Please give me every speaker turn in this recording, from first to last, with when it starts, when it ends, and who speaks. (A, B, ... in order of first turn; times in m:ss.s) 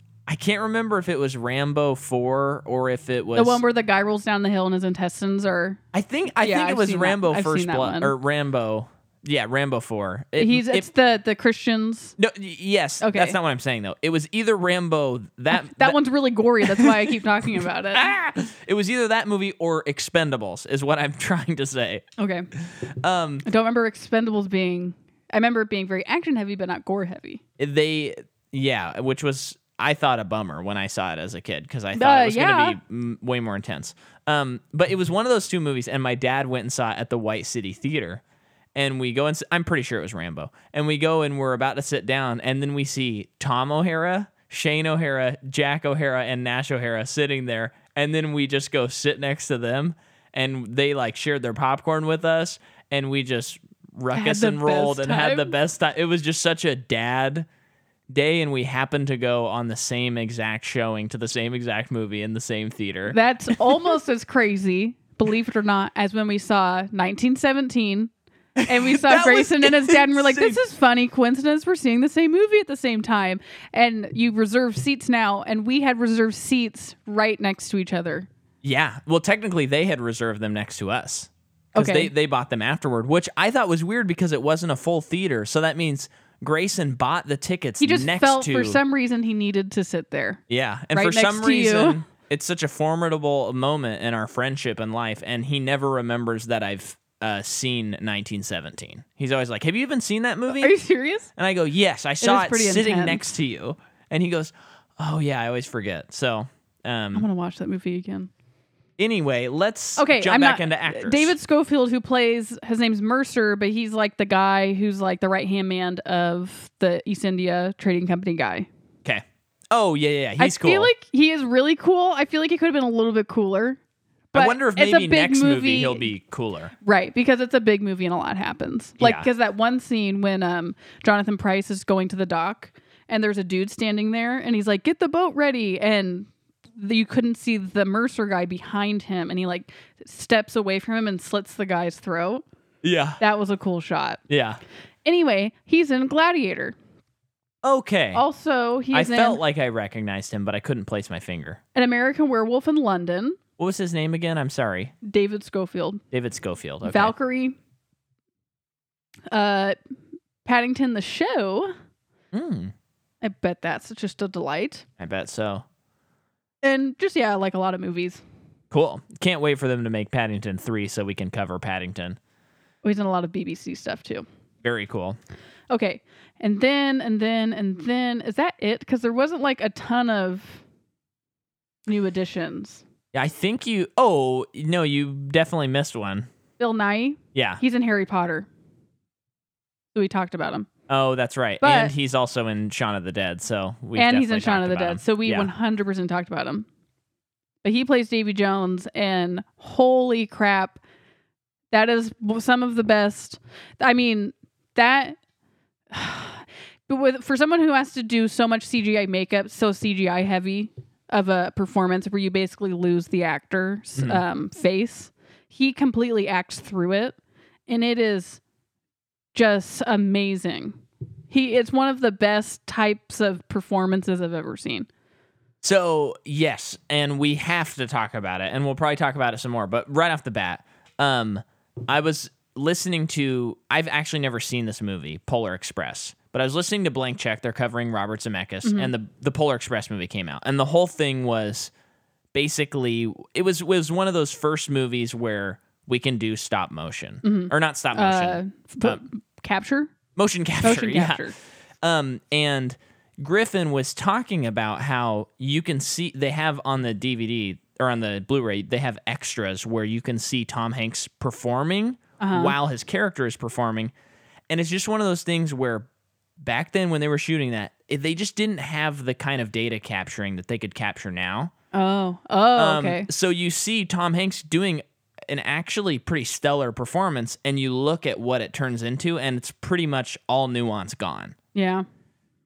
0:00.3-0:03.6 A
0:03.4-0:05.8 B
0:05.9-0:10.9 A
0:06.4-0:08.1 B
0:10.4-0:12.2 B
0:12.2-0:16.0 A
0:13.0-0:13.4 B
0:15.5-0:18.0 B
0:16.6-0:23.4 A
0:22.2-0:22.5 B
0:23.4-0:27.4 B
0:27.6-0:38.2 A
0:31.9-0:32.8 B
0:38.8-0:57.5 A
0:54.1-0:55.5 B
0:58.1-1:03.9 A
1:03.1-1:08.1 B
1:08.6-1:10.6 A
1:08.6-1:18.3 B
1:18.6-1:28.8 A
1:21.8-1:22.1 B
1:27.8-1:30.4 B
1:30.5-1:40.7 A
1:30.9-1:32.0 B
1:40.5-1:41.3 B
1:41.4-1:47.3 A
1:42.2-1:43.2 B
1:47.2-1:48.3 B
1:49.0-1:51.4 A
1:50.0-1:58.7 B
1:59.0-2:00.9 A
2:00.4-2:03.8 B
2:04.3-2:06.7 A
2:04.3-2:06.1 B
2:06.8-2:22.4 B
2:09.0-2:09.3 A
2:22.8-2:23.2 A
2:23.2-2:24.2 B
2:24.3-2:24.6 A
2:25.0-2:26.8 B
2:27.6-2:28.2 A
2:28.1-2:29.4 B
2:28.9-2:31.6 A
2:31.8-2:33.4 B
2:33.6-2:34.9 A
2:35.0-2:36.0 B
2:36.1-2:37.1 A
2:36.8-2:37.6 B
2:39.3-2:39.8 B
2:40.4-2:41.7 B
2:42.3-2:42.7 A
2:43.2-2:44.8 B
2:45.0-2:45.6 A
2:46.6-2:48.2 B
2:48.7-2:52.2 A
2:52.8-2:54.3 B
2:54.6-2:55.2 A
2:55.7-3:00.6 B
3:01.9-3:02.8 B
3:03.1-3:06.3 A
3:06.6-3:08.5 B
3:07.4-3:07.6 A
3:10.0-3:10.7 B
3:10.9-3:15.5 A
3:11.6-3:11.9 B
3:14.0-3:16.7 B
3:17.6-3:20.8 B
3:21.7-3:25.2 B
3:25.9-3:37.2 B
3:34.0-3:34.2 A
3:37.7-3:38.4 B
3:39.3-3:40.8 B
3:41.3-3:44.9 B
3:45.6-4:01.7 A
3:58.6-3:58.9 B
4:02.3-4:09.0 A
4:07.2-4:09.9 B
4:10.2-4:11.3 A
4:10.6-4:11.4 B
4:11.8-4:23.9 A
4:22.2-4:22.6 B
4:24.5-4:25.9 A
4:26.4-4:31.5 A
4:31.7-4:33.1 B
4:32.6-4:41.4 A
4:41.5-4:41.8 B